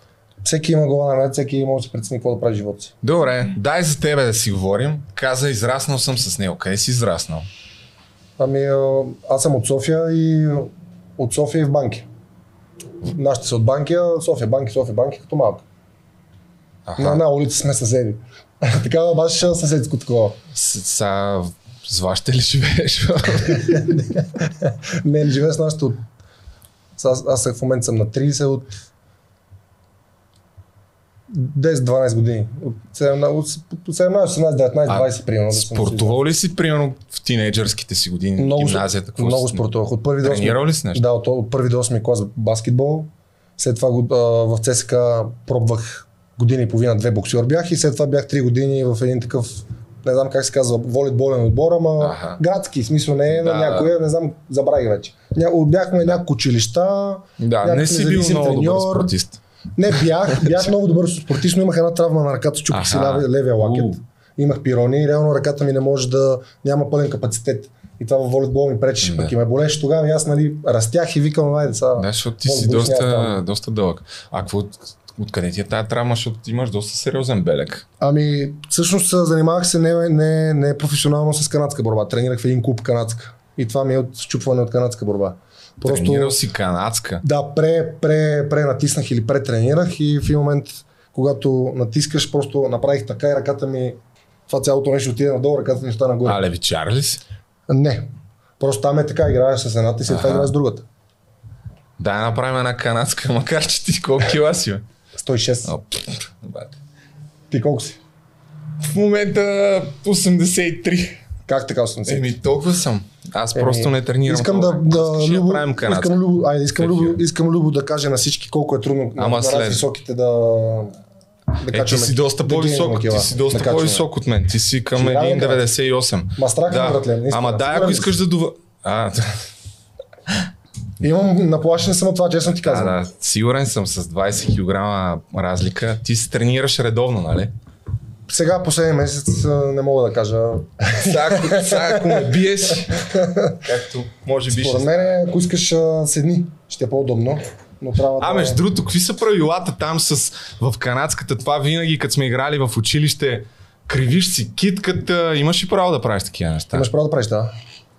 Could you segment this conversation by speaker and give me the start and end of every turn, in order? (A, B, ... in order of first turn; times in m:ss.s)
0:00.4-0:02.9 A
0:03.0-0:07.4 B
0:08.4-0:12.0 A
0:13.0-0:15.6 A
0:16.8-0:17.2 B
0:17.0-0:20.4 A
0:20.5-0:23.8 B
0:23.5-0:26.0 A
0:27.0-0:28.8 A
0:31.3-0:36.2 A
0:34.9-0:39.6 B
0:38.4-0:59.1 A
0:40.2-0:41.0 B
0:52.0-0:52.4 B
0:53.3-0:53.9 B
0:57.4-0:59.4 B
0:59.8-1:13.4 A
1:02.7-1:04.0 B
1:09.0-1:09.3 B
1:12.0-1:17.8 B
1:18.0-1:26.4 A
1:25.8-1:27.2 B
1:27.2-1:34.0 A
1:34.5-1:36.4 A
1:36.2-1:37.2 B
1:37.7-1:40.8 A
1:40.1-1:40.5 B
1:42.0-1:44.8 B
1:45.2-1:45.7 A
1:45.6-1:46.8 B
1:47.5-1:48.0 A
1:48.8-1:51.2 B
1:51.5-1:52.3 A
1:52.1-1:56.2 B
1:53.5-2:00.9 A
1:56.8-1:57.2 B
1:59.2-1:59.8 B
2:01.6-2:04.0 A
2:01.7-2:09.4 B
2:05.0-2:05.6 A
2:06.4-2:08.1 A
2:11.0-2:12.9 A
2:12.6-2:17.5 B
2:18.3-2:23.6 A
2:20.9-2:25.1 B
2:24.5-2:28.6 A
2:28.2-2:36.9 B
2:36.7-2:37.5 A